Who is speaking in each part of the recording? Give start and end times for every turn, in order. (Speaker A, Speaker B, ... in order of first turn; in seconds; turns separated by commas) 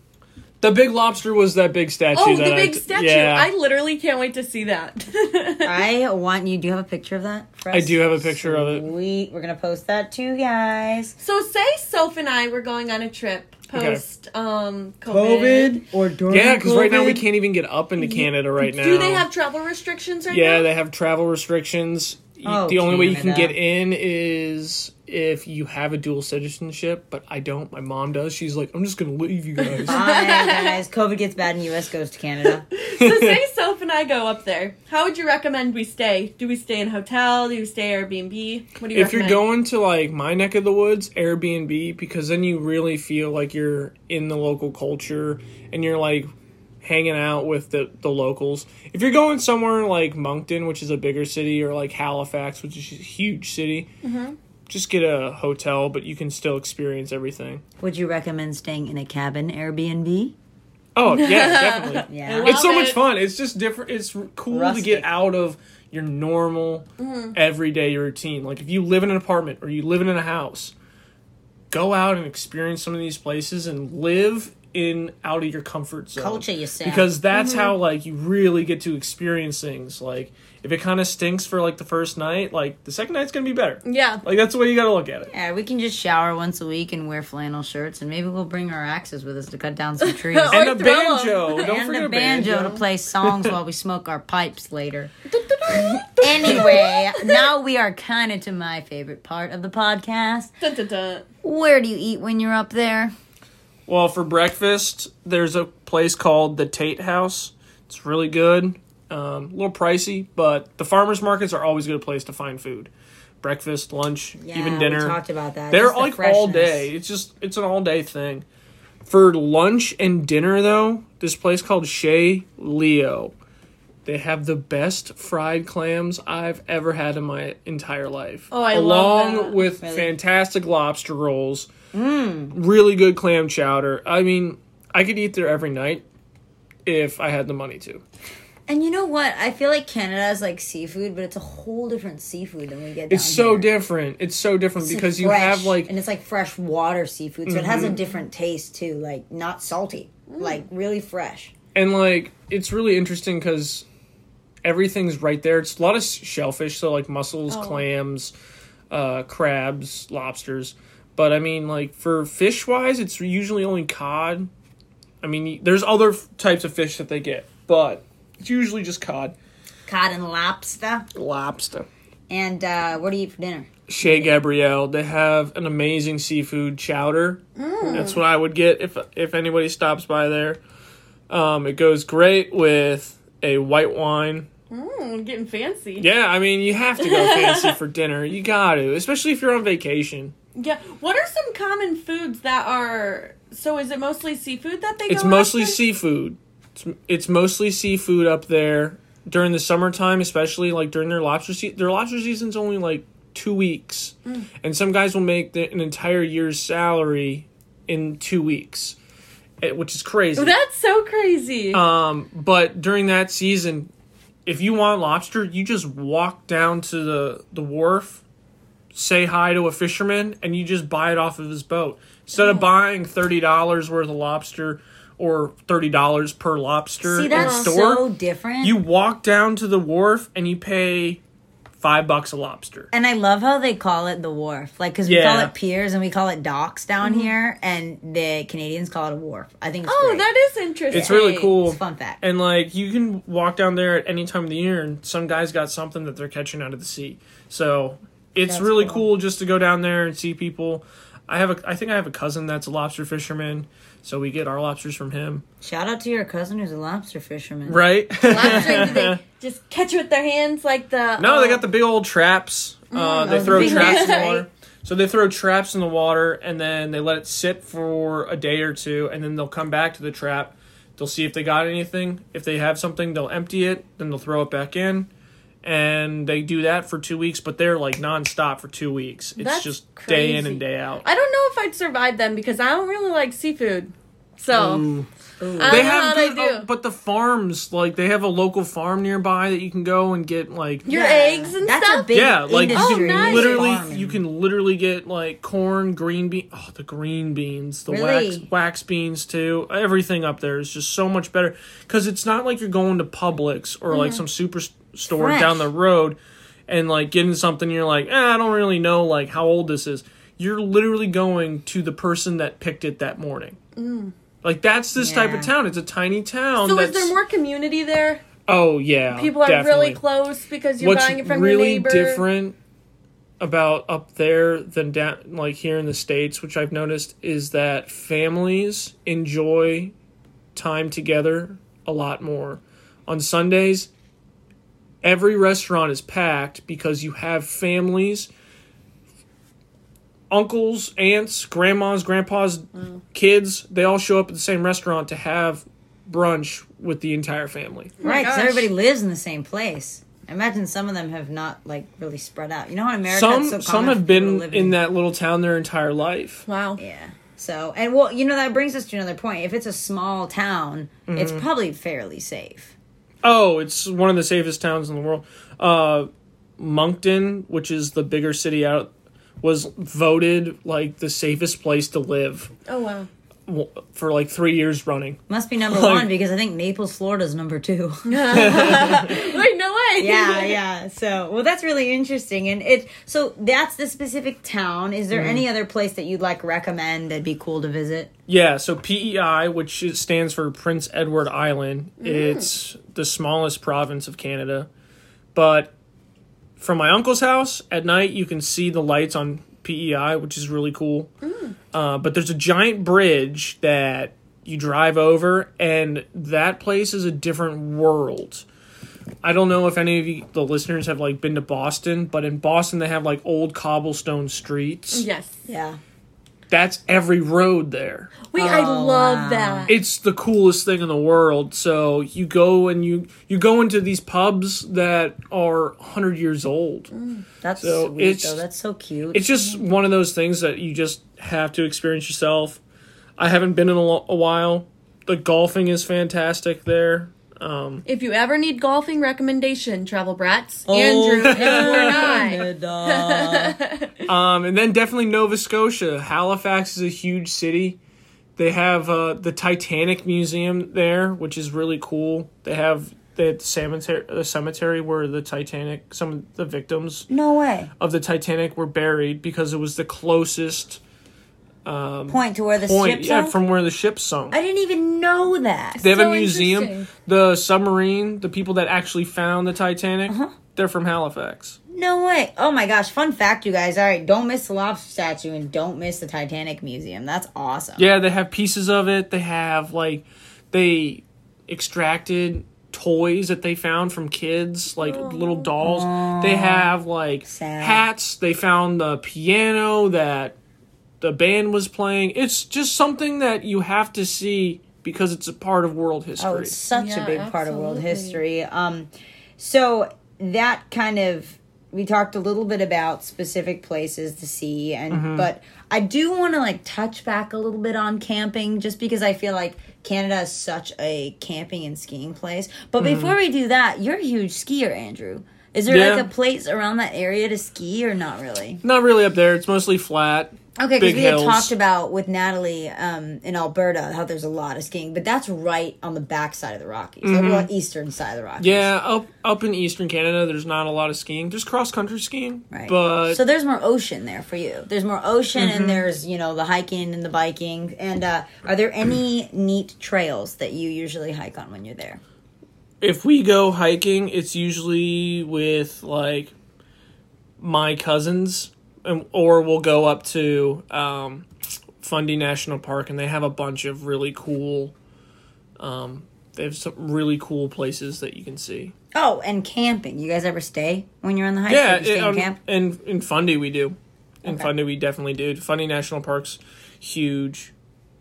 Speaker A: 0.6-3.5, Speaker B: 2.1-5.8, Speaker C: 5.6-11.1, Speaker A: 7.7-8.8, Speaker B: 11.2-15.8, Speaker A: 13.7-14.0, Speaker C: 15.1-17.2, Speaker A: 16.3-19.3, Speaker B: 18.0-20.7, Speaker A: 20.3-30.0, Speaker C: 22.4-23.6, Speaker B: 29.6-30.8, Speaker C: 29.8-32.6, Speaker B: 32.5-39.4, Speaker A: 33.0-33.4, Speaker A: 38.9-46.3, Speaker A: 46.8-53.9, Speaker B: 54.0-54.4, Speaker A: 54.7-57.6, Speaker C: 57.8-60.3, Speaker A: 60.9-70.7, Speaker B: 61.1-63.0, Speaker C: 62.1-62.6, Speaker C: 64.5-65.1, Speaker B: 67.0-67.3, Speaker A: 71.7-85.3, Speaker C: 76.2-77.1, Speaker B: 77.3-77.7, Speaker B: 83.8-84.2, Speaker C: 85.3-90.6, Speaker B: 90.0-91.6, Speaker A: 90.5-93.5, Speaker C: 91.6-95.1, Speaker B: 95.3-97.4, Speaker C: 95.7-100.5, Speaker B: 100.6-101.2, Speaker C: 101.4-103.1, Speaker A: 103.9-112.9, Speaker A: 113.4-115.2, Speaker C: 114.4-116.9, Speaker A: 115.7-118.4, Speaker A: 119.0-123.3, Speaker A: 124.0-131.7, Speaker B: 128.5-129.6, Speaker C: 129.8-130.1, Speaker C: 131.9-132.5, Speaker A: 132.5-136.0, Speaker A: 136.8-138.0, Speaker C: 138.7-143.7, Speaker A: 143.1-145.9, Speaker C: 144.8-151.5, Speaker A: 147.4-148.0, Speaker B: 150.3-150.6, Speaker A: 151.7-153.8, Speaker A: 154.6-158.3, Speaker B: 157.5-157.8, Speaker A: 158.9-164.5, Speaker A: 165.2-169.3, Speaker C: 169.9-171.1, Speaker A: 171.1-171.9, Speaker C: 172.3-174.3, Speaker A: 173.9-180.6, Speaker B: 177.6-178.2, Speaker A: 181.3-184.5, Speaker B: 184.7-186.1, Speaker A: 186.0-190.3, Speaker B: 187.0-187.8, Speaker B: 190.6-195.8, Speaker A: 195.1-209.0, Speaker A: 209.6-210.5, Speaker B: 210.3-211.8, Speaker A: 211.7-213.9, Speaker A: 214.4-218.2, Speaker A: 218.9-228.1, Speaker B: 222.3-222.7, Speaker C: 227.0-228.8, Speaker B: 227.3-227.7, Speaker A: 228.6-231.2, Speaker A: 231.8-232.9, Speaker C: 232.9-240.2, Speaker A: 235.0-235.5, Speaker B: 237.0-237.3, Speaker B: 239.8-241.6, Speaker A: 240.9-255.4, Speaker C: 240.9-242.2, Speaker C: 248.4-249.1, Speaker C: 255.6-259.1, Speaker A: 257.6-259.2, Speaker B: 258.2-261.6, Speaker A: 261.2-275.1, Speaker B: 262.9-264.3, Speaker C: 263.2-264.4, Speaker A: 275.6-281.0, Speaker B: 279.4-284.9, Speaker A: 284.5-285.1, Speaker C: 285.4-285.9, Speaker B: 285.6-286.7, Speaker A: 285.6-290.9, Speaker B: 290.9-293.8, Speaker C: 290.9-294.2, Speaker A: 292.1-306.2, Speaker C: 297.9-298.5, Speaker B: 303.9-304.2, Speaker C: 305.1-305.7, Speaker A: 306.7-313.6, Speaker B: 313.8-314.1, Speaker A: 314.4-317.1, Speaker C: 314.9-315.5, Speaker B: 316.6-318.2, Speaker A: 318.5-320.0, Speaker B: 319.1-322.2, Speaker A: 320.8-322.5, Speaker A: 323.4-329.9, Speaker A: 330.5-333.9, Speaker A: 335.0-338.3, Speaker A: 340.3-348.0, Speaker B: 348.0-348.7, Speaker C: 348.0-354.8, Speaker A: 353.1-356.4, Speaker B: 356.5-356.8, Speaker C: 356.8-362.7, Speaker A: 361.1-361.4, Speaker A: 363.2-368.9, Speaker A: 369.4-372.5, Speaker B: 372.7-373.1, Speaker A: 373.5-376.1, Speaker C: 375.3-379.4, Speaker B: 378.1-380.6, Speaker A: 378.3-379.0, Speaker C: 380.0-388.1, Speaker A: 385.1-385.4, Speaker A: 388.3-394.7, Speaker B: 392.0-392.5, Speaker A: 395.3-395.7, Speaker A: 396.6-401.1, Speaker B: 401.2-401.6, Speaker A: 401.7-408.4, Speaker A: 409.2-415.1, Speaker B: 414.9-415.4, Speaker C: 415.4-415.8, Speaker A: 416.5-418.1, Speaker B: 418.3-419.7, Speaker C: 418.3-419.7, Speaker A: 419.7-426.9, Speaker B: 426.9-427.2, Speaker C: 427.4-429.5, Speaker A: 427.6-428.4, Speaker A: 429.1-432.6, Speaker A: 433.2-437.8, Speaker B: 437.9-444.1, Speaker C: 440.7-443.6, Speaker A: 441.2-442.3, Speaker A: 444.1-447.8, Speaker A: 448.4-457.1, Speaker C: 457.1-457.7, Speaker A: 457.8-460.8, Speaker A: 461.6-464.4, Speaker C: 462.1-463.4, Speaker C: 464.3-465.8, Speaker B: 465.8-466.9, Speaker A: 465.8-471.6, Speaker C: 470.1-470.4, Speaker C: 471.7-477.9, Speaker A: 477.8-490.4, Speaker B: 484.8-485.5, Speaker C: 485.6-486.7, Speaker C: 487.3-487.8, Speaker A: 491.0-496.6, Speaker C: 496.2-518.6, Speaker B: 496.7-498.2, Speaker A: 504.9-505.3, Speaker A: 512.8-513.1, Speaker A: 515.7-516.1, Speaker A: 518.6-521.5, Speaker C: 520.6-528.7, Speaker A: 527.0-527.5, Speaker A: 528.4-533.2, Speaker C: 532.5-542.0, Speaker A: 535.4-535.8, Speaker A: 542.8-546.3, Speaker A: 547.4-551.3, Speaker A: 551.8-554.7, Speaker A: 555.6-558.7, Speaker C: 558.9-562.4, Speaker A: 561.5-567.5, Speaker C: 564.2-564.5